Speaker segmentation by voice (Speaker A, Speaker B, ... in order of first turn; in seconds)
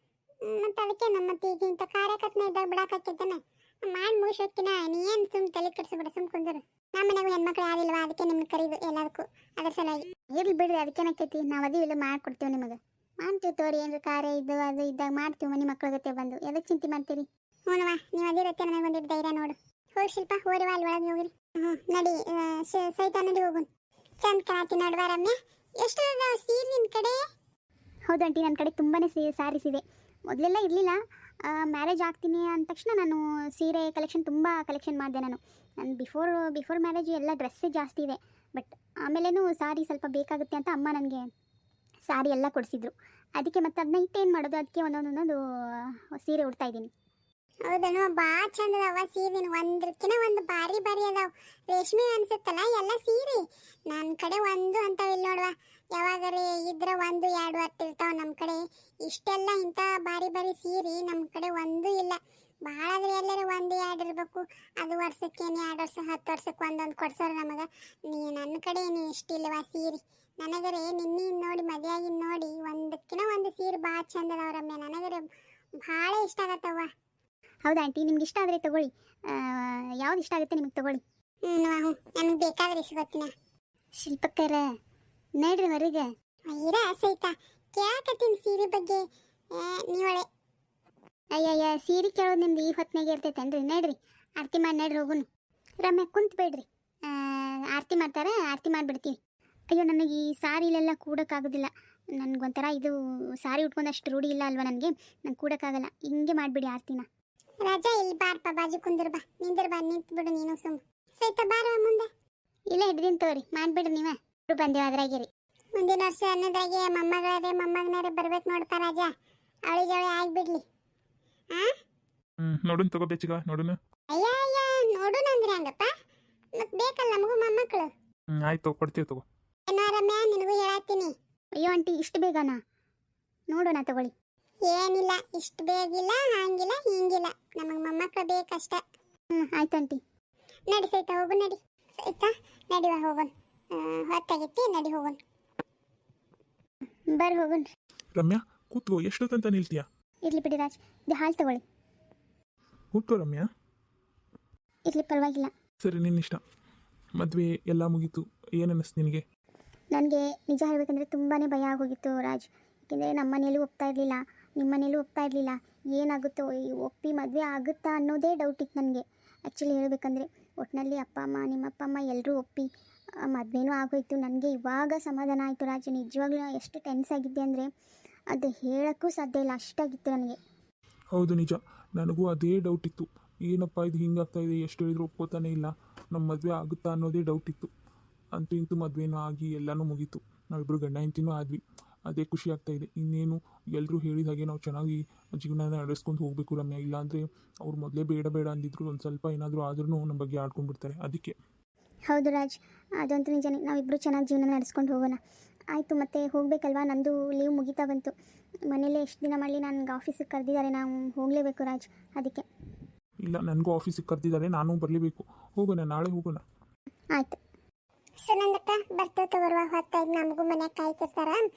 Speaker A: 0.5-10.1, 17.7-23.7, 24.2-27.2, 47.7-75.2, 75.8-76.9, 81.5-83.3, 86.5-89.0, 89.5-90.2, 107.6-112.1, 115.8-119.1, 119.7-120.6, 124.1-125.9, 126.6-127.9, 129.7-131.1, 134.7-138.8, 140.7-145.2, 218.2-221.4
Speaker B: 10.3-17.3, 28.1-31.0, 31.5-41.3, 42.1-46.9, 77.7-81.0, 84.0-84.6, 85.4-86.1, 91.3-95.3, 95.8-99.2, 99.7-107.1, 112.7-115.3, 131.6-132.6, 133.5-134.1, 139.3-140.0, 147.1-147.7, 150.3-151.6, 154.9-155.5, 159.9-172.7, 173.3-177.7, 178.3-180.4, 202.1-205.2, 205.7-208.1, 208.7-212.4
Speaker C: 122.4-123.8, 128.3-129.2, 148.2-149.8, 152.9-153.5, 155.8-156.4, 157.2-159.2, 181.1-187.7, 188.3-201.4, 213.2-216.4